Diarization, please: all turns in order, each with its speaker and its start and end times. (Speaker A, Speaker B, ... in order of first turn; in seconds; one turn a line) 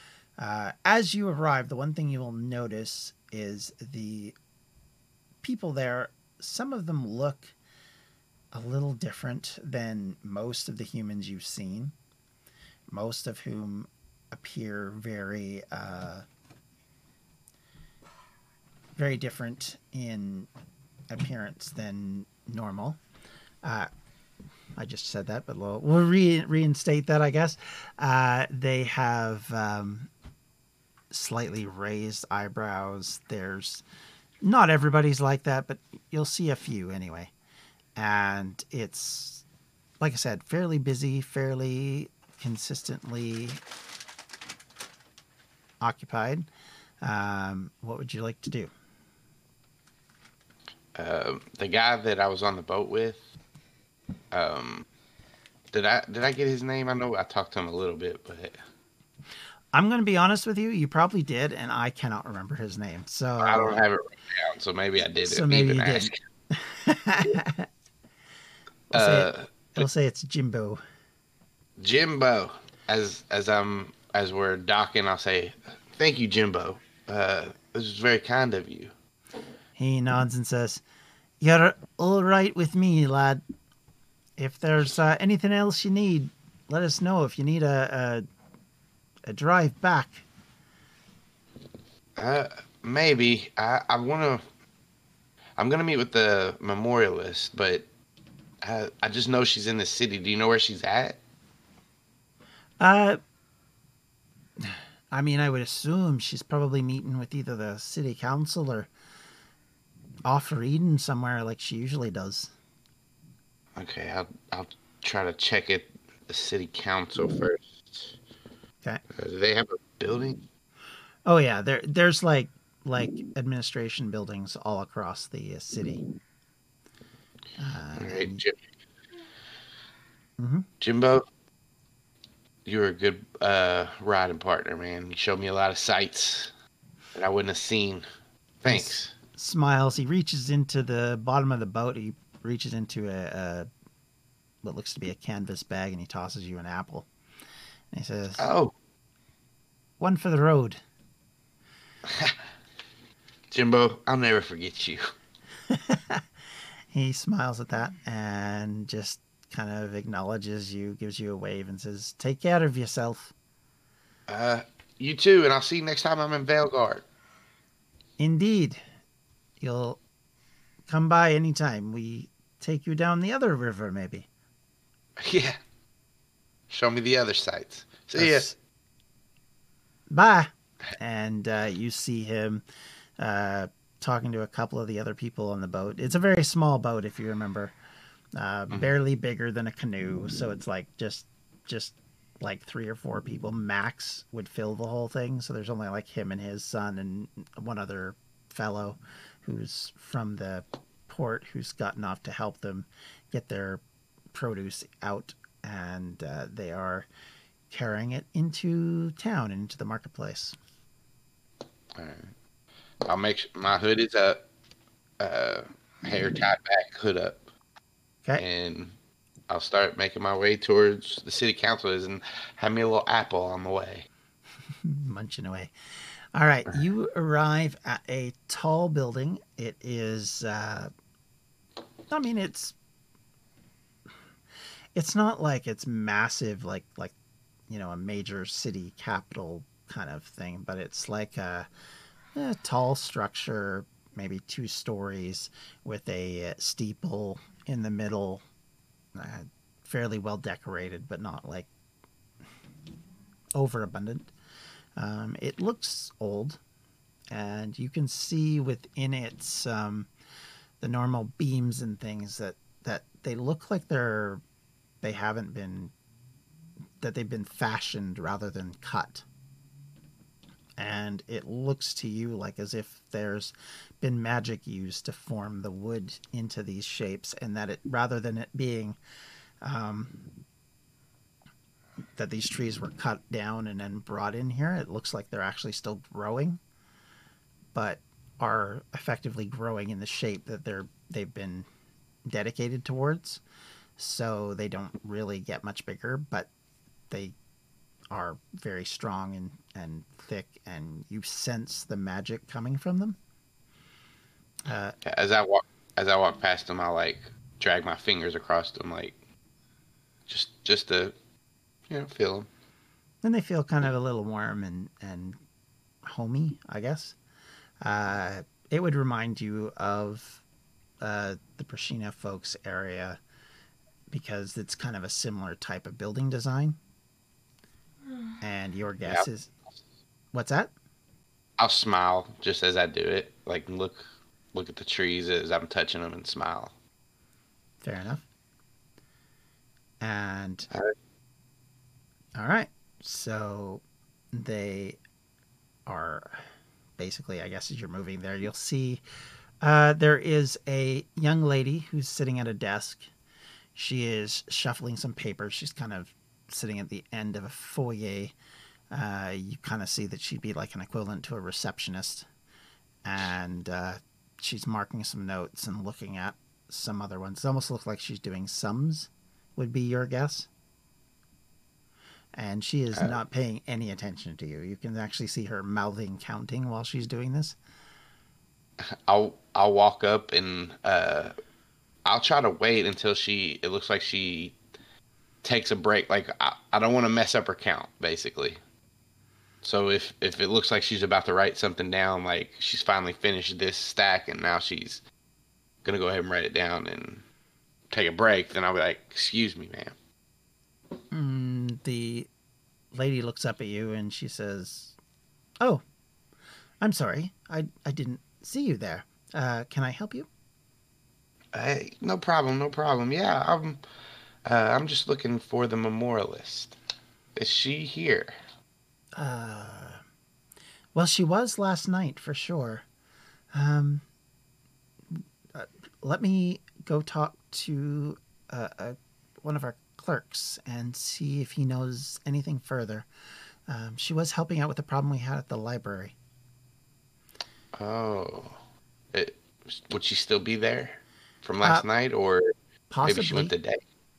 Speaker A: 0.4-4.3
Speaker A: 5.4-7.5
Speaker A: 8.5-11.9
Speaker A: 12.9-16.2
Speaker A: 18.9-20.5
Speaker A: 21.1-23.0
Speaker A: 23.6-23.9
Speaker A: 24.8-30.1
Speaker A: 31.1-33.8
Speaker A: 34.4-37.3
Speaker A: 38.0-39.4
Speaker A: 40.0-43.6
Speaker A: 45.8-46.5
Speaker A: 47.0-48.7
Speaker B: 50.9-53.2
Speaker B: 54.3-54.9
Speaker B: 55.7-58.6
Speaker A: 59.7-63.8
Speaker B: 63.4-66.1
Speaker A: 65.2-67.7
Speaker B: 68.9-69.8
Speaker A: 68.9-70.8
Speaker B: 71.8-78.9
Speaker A: 79.8-80.8
Speaker A: 81.4-83.4
Speaker A: 84.4-88.2
Speaker A: 89.3-90.2
Speaker B: 92.2-94.4
Speaker B: 95.6-97.8
Speaker B: 98.6-101.2
Speaker A: 102.8-103.2
Speaker A: 104.6-108.9
Speaker A: 110.2-112.5
Speaker B: 113.7-118.2
Speaker B: 119.1-120.4
Speaker A: 121.2-126.0
Speaker A: 127.6-128.4
Speaker B: 128.0-128.6
Speaker A: 130.4-130.7
Speaker B: 130.8-131.2
Speaker B: 132.6-136.5
Speaker B: 137.1-138.1
Speaker B: 138.6-139.1
Speaker A: 138.7-143.7
Speaker A: 144.6-147.1
Speaker A: 147.9-148.5
Speaker B: 148.4-148.7
Speaker A: 150.0-150.8
Speaker B: 152.0-152.3
Speaker B: 153.5-155.1
Speaker A: 155.7-156.2
Speaker A: 156.9-163.3
Speaker B: 164.3-167.0
Speaker A: 168.2-168.8
Speaker A: 169.6-170.0
Speaker A: 170.9-174.3
Speaker B: 175.2-175.6
Speaker B: 176.7-178.5
Speaker A: 178.2-178.5
Speaker A: 180.1-182.6
Speaker A: 183.2-187.7
Speaker A: 188.3-203.8
Speaker A: 204.3-207.1
Speaker A: 207.7-210.6
Speaker B: 211.9-212.3
Speaker B: 213.0-214.4
Speaker B: 215.2-217.5
Speaker B: 218.4-218.9
Speaker B: 219.5-224.1
Speaker A: 224.8-225.7
Speaker A: 226.3-230.9
Speaker A: 232.1-232.7
Speaker A: 234.9-237.1
Speaker A: 237.7-241.7
Speaker A: 242.3-248.4
Speaker A: 249.1-251.7
Speaker A: 253.6-254.3
Speaker A: 254.9-256.6
Speaker A: 257.3-260.1
Speaker A: 260.8-264.4
Speaker A: 265.0-265.9
Speaker A: 267.0-269.2
Speaker A: 270.8-279.0
Speaker A: 279.6-280.2
Speaker A: 282.1-286.6
Speaker A: 287.7-291.6
Speaker A: 292.2-293.4
Speaker A: 294.0-296.5
Speaker A: 298.1-303.2
Speaker A: 304.6-304.9
Speaker B: 305.0-309.1
Speaker B: 310.3-311.1
Speaker B: 311.9-312.5
Speaker A: 313.2-315.4
Speaker A: 316.0-317.1
Speaker A: 317.8-320.4
Speaker A: 321.0-323.2
Speaker A: 324.1-326.8
Speaker A: 328.4-329.5
Speaker A: 330.3-330.7
Speaker B: 331.6-336.7
Speaker A: 337.8-338.2
Speaker A: 340.0-340.7
Speaker A: 342.4-345.0
Speaker A: 345.9-346.5
Speaker A: 347.0-349.0
Speaker A: 349.6-353.1
Speaker A: 353.7-358.3
Speaker A: 358.9-362.2
Speaker A: 363.0-370.5
Speaker A: 372.3-377.6
Speaker B: 372.9-373.2
Speaker B: 378.8-381.3
Speaker B: 382.0-384.6
Speaker B: 385.4-388.6
Speaker B: 389.6-395.0
Speaker B: 395.8-397.2
Speaker B: 397.9-399.9
Speaker A: 401.1-402.3
Speaker A: 402.9-404.9
Speaker A: 406.8-410.3
Speaker B: 411.5-413.8
Speaker B: 414.4-416.8
Speaker B: 417.3-418.4
Speaker A: 419.1-420.0
Speaker A: 420.9-422.8
Speaker A: 423.5-424.0
Speaker A: 425.1-433.1
Speaker A: 433.7-436.1
Speaker B: 437.7-438.6
Speaker B: 439.1-443.8
Speaker A: 442.9-443.5